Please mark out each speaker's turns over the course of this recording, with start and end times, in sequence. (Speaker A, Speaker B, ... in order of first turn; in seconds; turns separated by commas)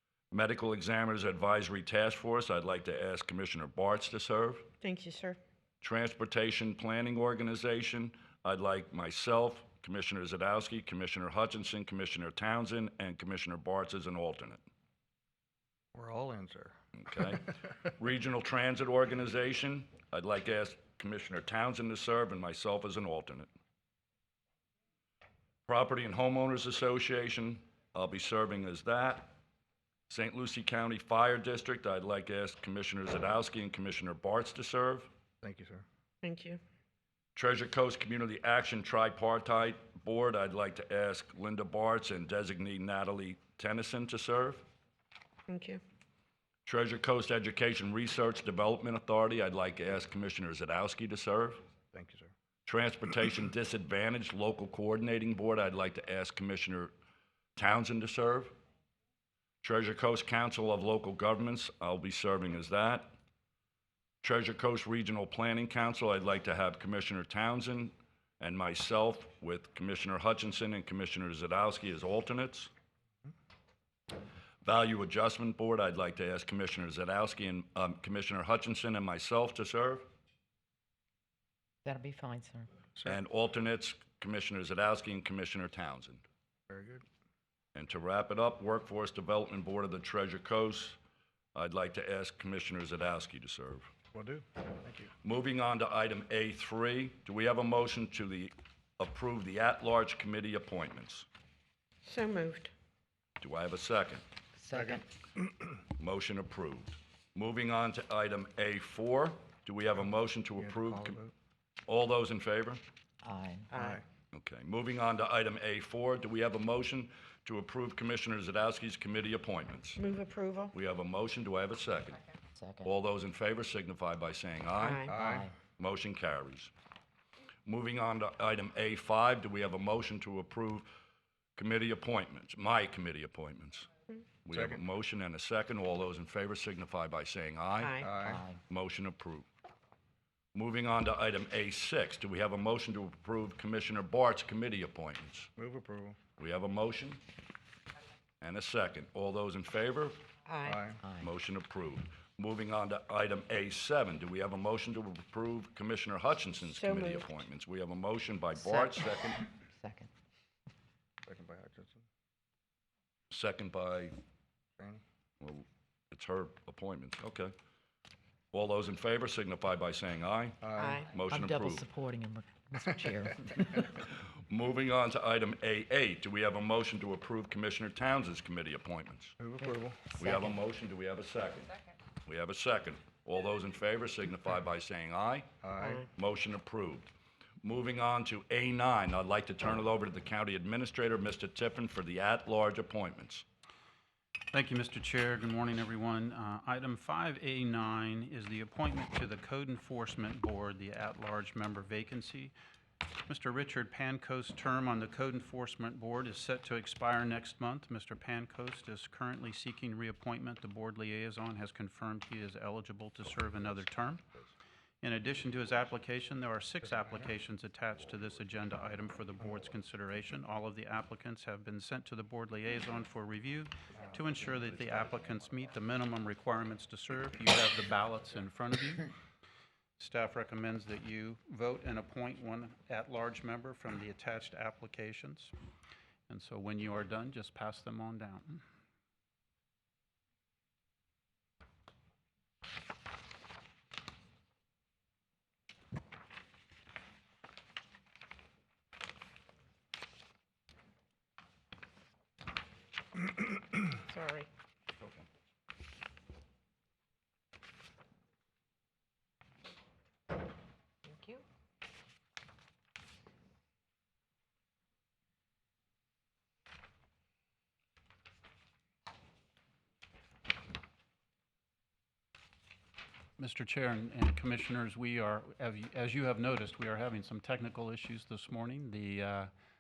Speaker A: 0.3-4.7, Speaker B: 4.8-5.4, Speaker A: 5.8-14.6, Speaker C: 15.9-16.8, Speaker A: 17.0-23.5, Speaker A: 25.7-29.4, Speaker A: 30.1-35.1, Speaker C: 35.4-35.9, Speaker B: 36.2-36.6, Speaker A: 37.4-44.6, Speaker B: 45.5-45.8, Speaker A: 46.7-51.6, Speaker C: 51.9-52.3, Speaker A: 52.7-56.9, Speaker A: 57.6-58.5, Speaker A: 59.6-63.1, Speaker A: 64.2-72.7, Speaker A: 74.6-80.0, Speaker D: 81.8-82.7, Speaker A: 83.0-86.2, Speaker C: 86.7-87.0, Speaker A: 87.8-91.0, Speaker A: 91.5-93.9, Speaker C: 94.1-95.1, Speaker A: 95.2-101.3, Speaker B: 102.0-102.7, Speaker A: 103.4-104.2, Speaker D: 104.5-105.0, Speaker C: 104.7-105.0, Speaker A: 106.0-111.2, Speaker C: 110.6-111.3, Speaker A: 111.9-112.8, Speaker D: 113.2-113.7, Speaker B: 113.7-114.0, Speaker A: 114.3-120.0, Speaker B: 120.0-120.8, Speaker A: 120.7-122.2, Speaker D: 122.5-122.9, Speaker A: 122.8-125.1, Speaker B: 124.8-125.2, Speaker C: 125.1-125.5, Speaker D: 125.1-125.5, Speaker A: 125.8-126.7, Speaker A: 127.7-130.9, Speaker A: 131.6-133.9, Speaker A: 134.4-138.0, Speaker C: 134.5-134.8, Speaker B: 137.8-138.2, Speaker C: 138.0-138.4, Speaker D: 138.2-138.6, Speaker A: 138.7-139.5, Speaker A: 140.5-145.5, Speaker C: 145.6-146.2, Speaker A: 146.4-147.2, Speaker A: 148.4-150.2, Speaker B: 150.5-150.8, Speaker C: 150.6-151.0, Speaker D: 151.0-151.3, Speaker A: 151.2-159.4, Speaker B: 156.7-157.3, Speaker D: 158.5-159.0, Speaker D: 159.7-160.1, Speaker C: 161.3-162.0, Speaker A: 163.3-164.2, Speaker A: 165.4-167.5, Speaker A: 168.5-171.9, Speaker C: 170.6-171.0, Speaker B: 170.8-171.1, Speaker D: 171.2-173.8, Speaker A: 174.1-179.4, Speaker C: 179.4-180.1, Speaker D: 179.6-180.6, Speaker A: 180.2-181.7, Speaker A: 182.2-185.5, Speaker C: 185.6-186.1, Speaker A: 186.1-187.1, Speaker A: 187.6-193.4, Speaker E: 194.5-202.5, Speaker E: 203.3-214.2, Speaker A: 213.5-214.6, Speaker E: 215.0-229.1, Speaker C: 223.9-225.1, Speaker E: 230.0-235.5, Speaker E: 236.3-238.6, Speaker B: 254.0-254.5, Speaker A: 255.0-255.2, Speaker B: 261.1-261.4, Speaker E: 273.4-279.5